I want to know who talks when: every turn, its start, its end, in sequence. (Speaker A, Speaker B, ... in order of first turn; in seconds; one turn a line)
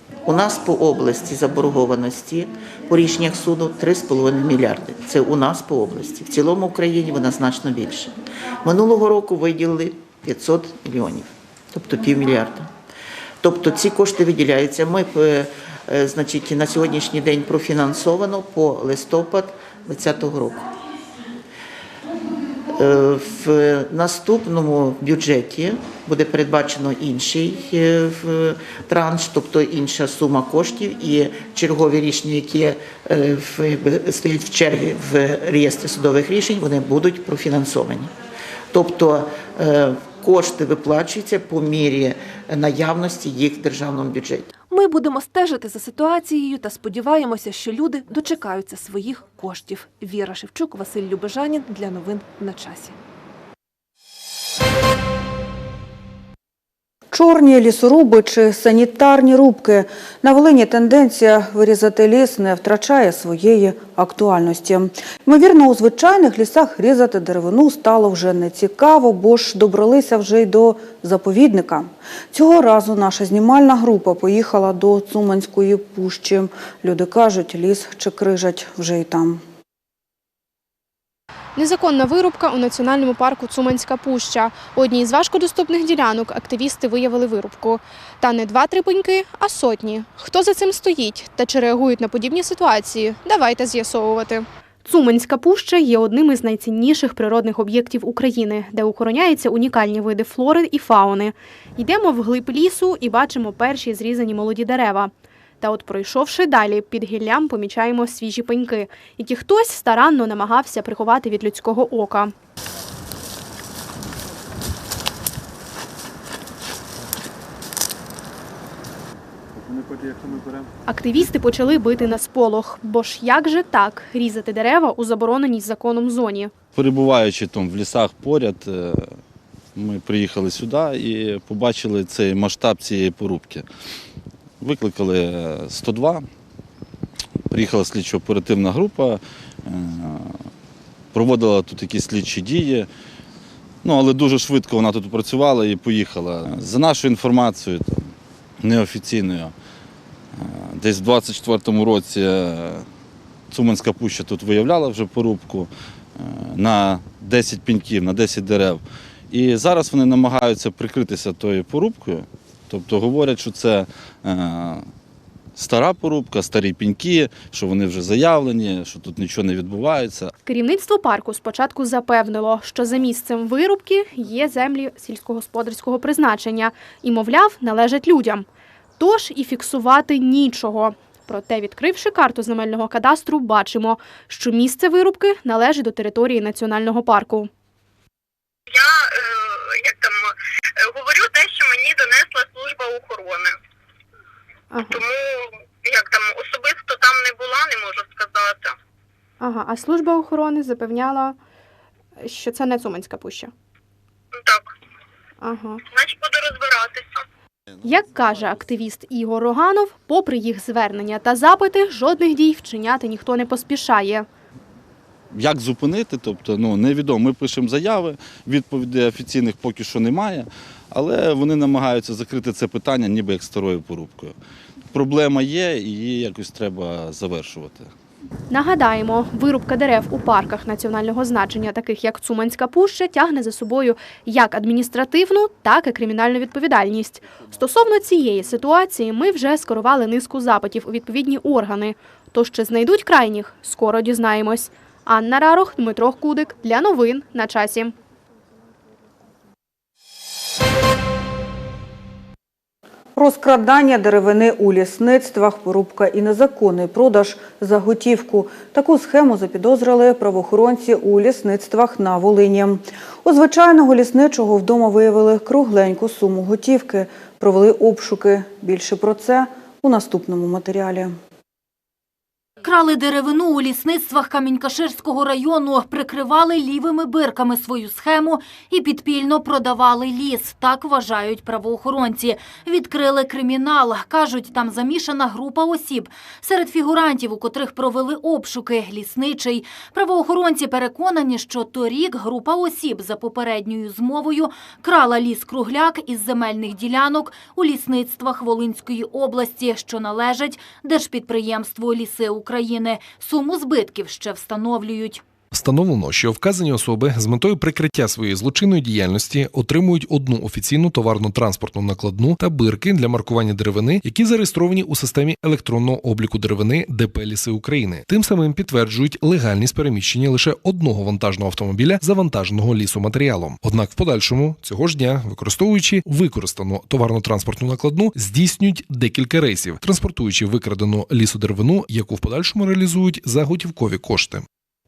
Speaker A: 0.2-12.7
Speaker A: 13.4-20.6
Speaker A: 22.7-38.1
Speaker A: 38.7-44.5
Speaker B: 44.7-53.0
Speaker C: 57.1-79.4
Speaker D: 81.5-112.3
Speaker D: 120.9-126.5
Speaker E: 126.7-129.2
Speaker E: 129.8-133.6
Speaker E: 134.6-136.2
Speaker E: 137.5-140.4
Speaker E: 141.1-142.9
Speaker E: 143.8-148.1
Speaker E: 148.6-149.5
Speaker E: 150.3-152.8
Speaker E: 153.5-164.8
Speaker E: 165.6-170.3
Speaker D: 170.4-178.5
Speaker D: 179.0-187.5
Speaker F: 188.7-193.5
Speaker D: 194.7-195.0
Speaker F: 194.8-198.7
Speaker D: 199.4-201.4
Speaker D: 202.2-203.5
Speaker F: 204.3-204.7
Speaker D: 205.4-205.8
Speaker F: 205.9-207.2
Speaker D: 207.8-214.3
Speaker E: 215.3-224.3
Speaker E: 224.9-227.9
Speaker D: 228.5-247.9
Speaker C: 253.2-271.1
Speaker G: 272.6-305.2
Speaker H: 305.5-334.4